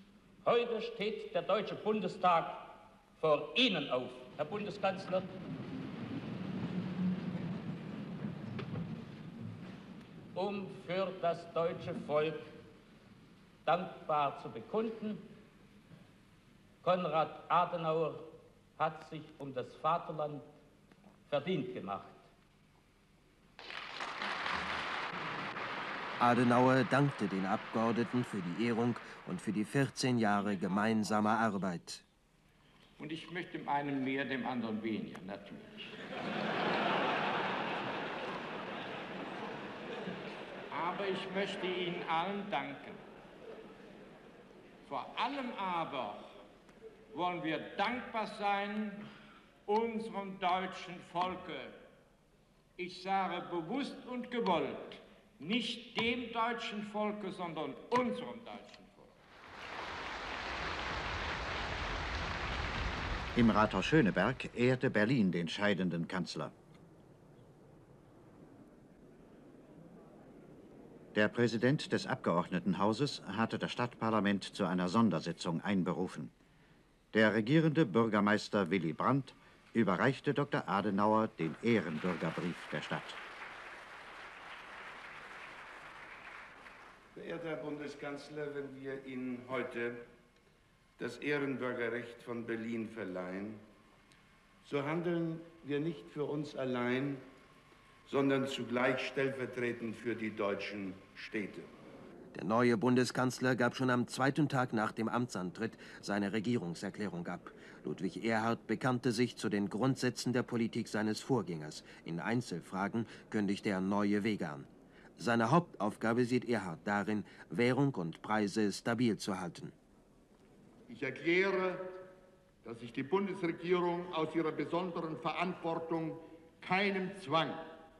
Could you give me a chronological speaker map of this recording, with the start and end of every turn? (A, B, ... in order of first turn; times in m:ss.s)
0:00.4-0:05.3 A
0:10.3-0:12.5 A
0:13.6-0:15.2 A
0:16.8-0:20.4 A
0:21.3-0:22.2 A
0:26.2-0:32.0 B
0:33.0-0:35.8 C
0:40.7-0:43.0 C
0:44.9-0:46.3 C
0:47.1-0:49.1 C
0:49.7-0:51.8 C
0:52.8-0:59.1 C
1:03.4-1:06.5 D
1:11.1-1:16.3 D
1:17.1-1:23.2 D
1:27.2-1:30.0 E
1:31.0-1:33.6 E
1:34.6-1:37.2 E
1:38.1-1:41.7 E
1:42.3-1:59.8 B
2:00.9-2:02.0 F
2:02.6-2:07.6 F